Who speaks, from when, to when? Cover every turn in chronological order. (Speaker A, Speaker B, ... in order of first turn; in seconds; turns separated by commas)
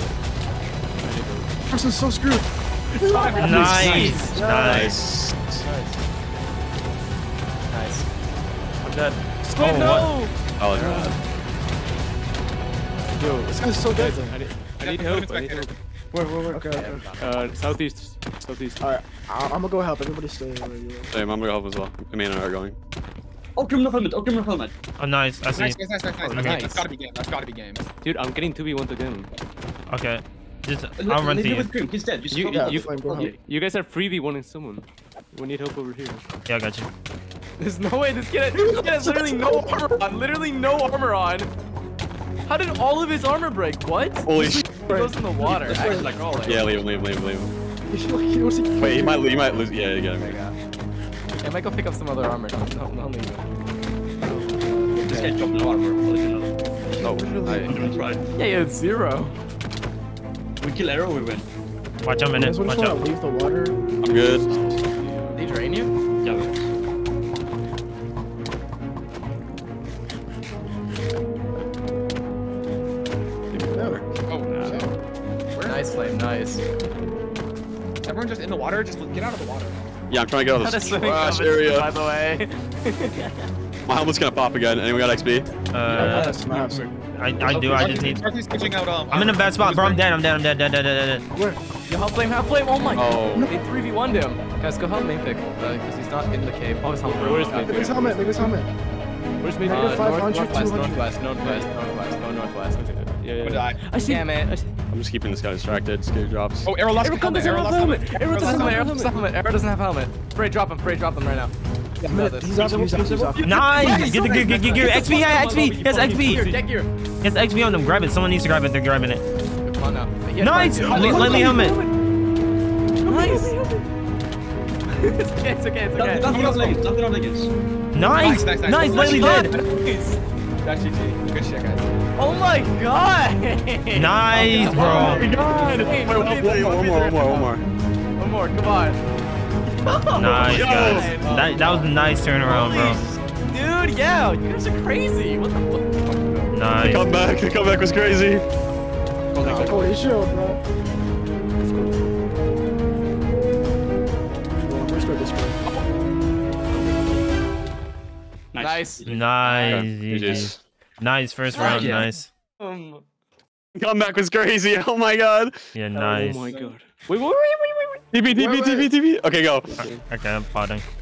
Speaker A: 1.0-1.5, Speaker B: 1.7-4.9, Speaker C: 3.0-4.2, Speaker D: 3.2-4.1, Speaker E: 3.4-5.0, Speaker F: 3.5-4.4, Speaker G: 4.6-5.6, Speaker A: 5.6-6.0, Speaker C: 7.7-8.0, Speaker A: 8.8-9.3, Speaker C: 9.5-11.1, Speaker E: 9.6-10.1, Speaker G: 10.6-11.1, Speaker A: 13.2-15.7, Speaker B: 13.2-14.4, Speaker D: 14.8-15.7, Speaker B: 16.4-17.0, Speaker C: 16.5-17.8, Speaker A: 17.1-18.9, Speaker B: 18.8-21.1, Speaker G: 21.1-22.8, Speaker F: 23.6-24.7, Speaker E: 25.0-25.8, Speaker D: 25.5-27.9, Speaker A: 26.2-26.8, Speaker E: 26.3-26.7, Speaker A: 28.0-29.3, Speaker E: 29.9-31.7, Speaker F: 30.9-33.3, Speaker A: 32.3-36.2, Speaker B: 32.5-33.3, Speaker E: 36.5-36.9, Speaker C: 37.6-41.5, Speaker B: 38.6-39.7, Speaker C: 42.5-46.6, Speaker G: 44.2-44.6, Speaker B: 44.4-45.1, Speaker F: 45.4-47.1, Speaker G: 46.4-47.5, Speaker B: 47.9-49.6, Speaker G: 48.8-50.4, Speaker C: 50.2-50.6, Speaker C: 51.4-53.4, Speaker B: 54.8-55.4, Speaker F: 55.0-56.9, Speaker B: 57.0-58.1, Speaker G: 57.0-57.6, Speaker C: 57.4-59.3, Speaker F: 57.6-58.3, Speaker F: 60.6-61.5, Speaker E: 62.0-63.1, Speaker B: 62.3-64.8, Speaker G: 64.0-64.4, Speaker C: 64.4-65.9, Speaker F: 66.2-66.7, Speaker G: 73.5-74.0, Speaker B: 73.5-74.0, Speaker D: 74.3-74.9, Speaker B: 74.6-74.8, Speaker D: 75.5-76.1, Speaker C: 75.6-76.6, Speaker D: 78.0-79.8, Speaker G: 80.1-81.9, Speaker C: 80.5-83.5, Speaker G: 83.9-85.5, Speaker E: 85.7-88.3, Speaker F: 85.8-88.0, Speaker B: 85.8-86.9, Speaker D: 87.5-90.0, Speaker E: 89.1-91.2, Speaker B: 91.3-91.6, Speaker C: 91.9-98.2, Speaker G: 92.9-93.5, Speaker A: 97.0-98.5, Speaker B: 97.5-98.7, Speaker A: 99.4-100.3, Speaker C: 99.5-103.0, Speaker B: 99.6-101.1, Speaker A: 101.3-101.7, Speaker A: 102.8-104.3, Speaker D: 103.4-103.8, Speaker C: 103.9-104.7, Speaker G: 104.9-106.7, Speaker D: 106.6-108.9, Speaker A: 107.0-109.3, Speaker C: 108.2-111.5, Speaker B: 108.3-108.7, Speaker B: 112.0-113.6, Speaker C: 112.0-116.9, Speaker F: 112.5-115.5, Speaker E: 113.4-116.5, Speaker D: 113.7-115.1, Speaker A: 114.1-116.5, Speaker E: 117.2-119.2, Speaker C: 119.6-121.9, Speaker E: 120.4-121.8, Speaker D: 120.8-121.6, Speaker F: 120.9-121.5, Speaker C: 123.0-123.9, Speaker C: 124.9-126.8, Speaker F: 125.9-127.5, Speaker D: 126.3-126.9, Speaker E: 127.9-129.5, Speaker D: 128.1-129.7, Speaker C: 128.8-130.2, Speaker D: 130.6-131.9, Speaker C: 132.2-137.5, Speaker E: 133.9-135.3, Speaker F: 134.5-135.2, Speaker D: 134.7-135.1, Speaker G: 134.9-137.6, Speaker C: 138.2-139.0, Speaker C: 139.7-146.1, Speaker E: 140.1-143.0, Speaker G: 140.4-141.2, Speaker F: 141.2-141.8, Speaker F: 146.0-146.6, Speaker E: 146.5-147.1, Speaker G: 146.8-148.4, Speaker F: 149.3-150.0, Speaker B: 149.4-150.6, Speaker C: 149.5-149.9, Speaker B: 151.6-152.0, Speaker B: 154.6-155.7, Speaker F: 158.5-159.8, Speaker C: 158.6-159.1, Speaker E: 159.0-162.3, Speaker G: 159.6-160.6, Speaker F: 161.5-162.1, Speaker C: 161.6-161.9, Speaker C: 162.6-163.0, Speaker G: 163.7-165.7, Speaker E: 165.7-166.4, Speaker A: 165.9-167.9, Speaker G: 168.1-169.8, Speaker B: 168.3-168.9, Speaker E: 169.8-170.8